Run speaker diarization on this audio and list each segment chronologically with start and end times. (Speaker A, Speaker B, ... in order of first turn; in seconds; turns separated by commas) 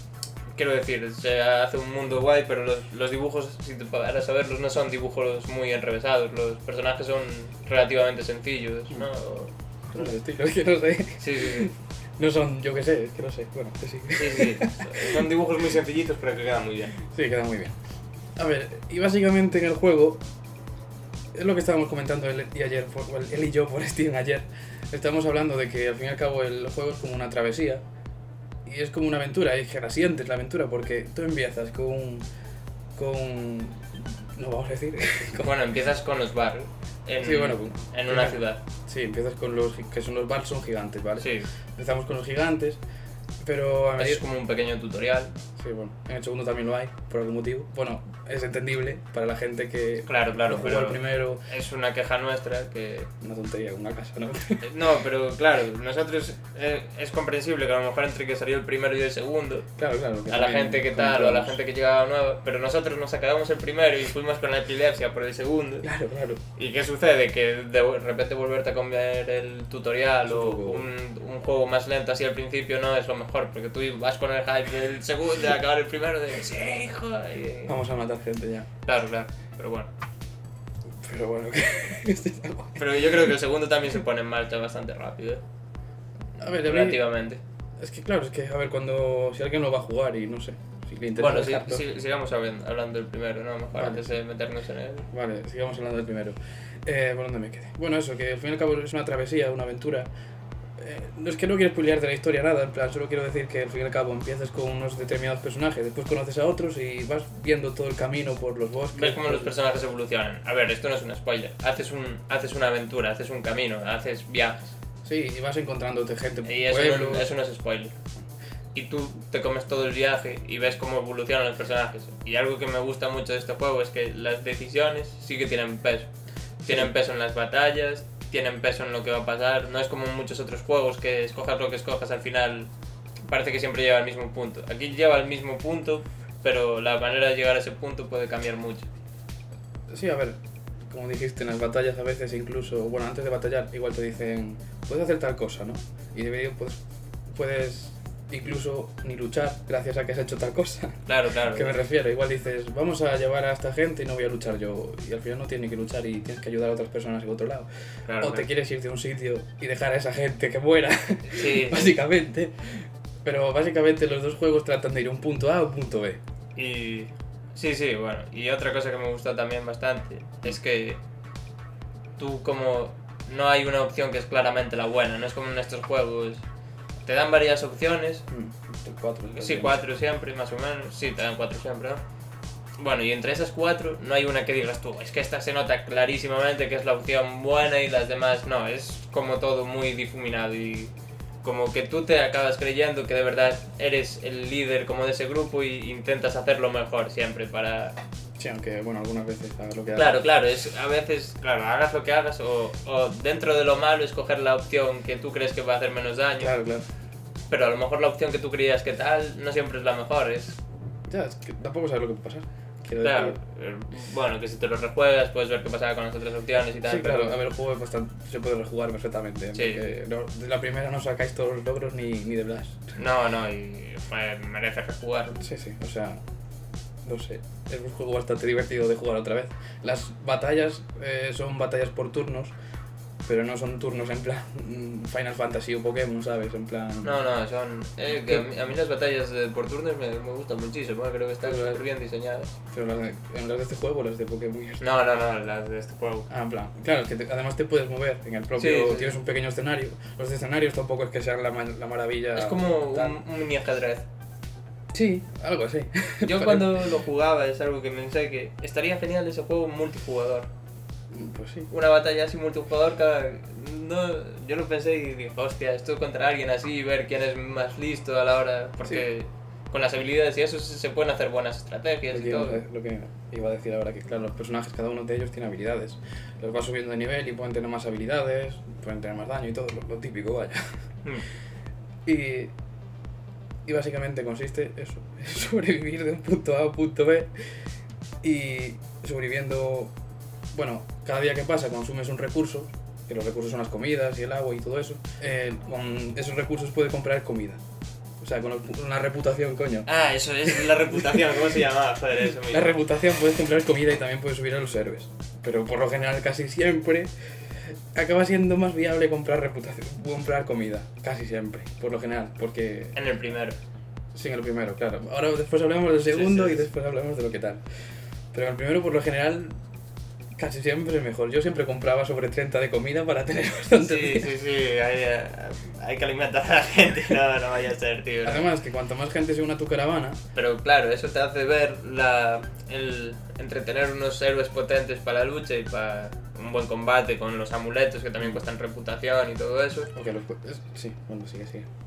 Speaker A: 0.5-10.1, Speaker B: 9.9-15.2, Speaker A: 11.2-11.7, Speaker A: 14.1-17.0, Speaker B: 17.1-17.8, Speaker B: 18.4-20.2, Speaker B: 21.3-27.8, Speaker B: 28.6-32.3, Speaker B: 33.0-35.5, Speaker A: 35.4-38.6, Speaker B: 37.2-42.8, Speaker A: 41.2-41.5, Speaker B: 43.4-44.2, Speaker A: 44.0-45.3, Speaker B: 45.6-51.5, Speaker A: 50.1-53.1, Speaker B: 53.2-54.7, Speaker A: 54.6-59.7, Speaker B: 59.8-61.6, Speaker A: 60.3-65.9, Speaker B: 65.8-66.4, Speaker A: 66.6-77.8, Speaker B: 70.2-70.9, Speaker B: 77.7-78.7, Speaker A: 78.8-79.9, Speaker B: 81.0-82.8, Speaker A: 82.8-85.4, Speaker B: 86.4-87.0, Speaker A: 86.4-87.4, Speaker B: 87.8-91.8, Speaker A: 91.2-95.1, Speaker B: 93.8-94.1, Speaker B: 95.1-100.1, Speaker B: 100.8-109.5, Speaker A: 108.9-114.8, Speaker B: 115.0-117.3, Speaker A: 116.5-117.9, Speaker A: 118.7-126.1, Speaker A: 126.6-132.7, Speaker A: 133.3-138.9, Speaker B: 139.9-140.4, Speaker B: 140.9-146.8, Speaker B: 147.3-166.2, Speaker A: 151.1-151.8, Speaker A: 158.1-158.5, Speaker A: 161.3-162.0, Speaker A: 166.6-171.0, Speaker A: 172.2-176.4, Speaker A: 177.0-178.3, Speaker B: 178.3-179.8, Speaker A: 179.4-182.0, Speaker A: 182.8-190.9, Speaker A: 191.4-198.0, Speaker B: 198.4-200.2, Speaker A: 199.9-206.5, Speaker B: 206.4-206.8, Speaker A: 207.5-210.6, Speaker B: 211.1-213.4, Speaker A: 213.0-217.4, Speaker B: 216.8-222.9, Speaker A: 219.6-219.8, Speaker A: 223.0-225.4, Speaker B: 225.4-226.2, Speaker B: 227.1-232.5, Speaker B: 233.3-237.2, Speaker A: 237.0-242.6, Speaker B: 238.1-238.5, Speaker B: 241.4-241.8, Speaker B: 242.7-244.8, Speaker A: 244.8-246.3, Speaker B: 246.3-253.2, Speaker A: 248.6-249.2, Speaker A: 252.4-254.1, Speaker B: 254.9-256.9, Speaker A: 256.2-260.5, Speaker B: 261.1-261.7, Speaker A: 261.7-272.6, Speaker B: 272.1-280.6, Speaker B: 282.1-282.5, Speaker B: 283.7-287.3, Speaker B: 288.2-289.9, Speaker B: 290.5-297.6, Speaker B: 298.2-299.9, Speaker A: 299.9-302.7, Speaker B: 300.5-301.2, Speaker B: 302.4-307.1, Speaker B: 307.9-313.0, Speaker A: 312.9-313.6, Speaker B: 314.1-317.6, Speaker A: 316.1-316.7, Speaker B: 318.3-319.5, Speaker B: 320.4-324.3, Speaker A: 323.8-328.5, Speaker B: 328.2-330.2, Speaker A: 330.4-339.9, Speaker B: 339.9-341.7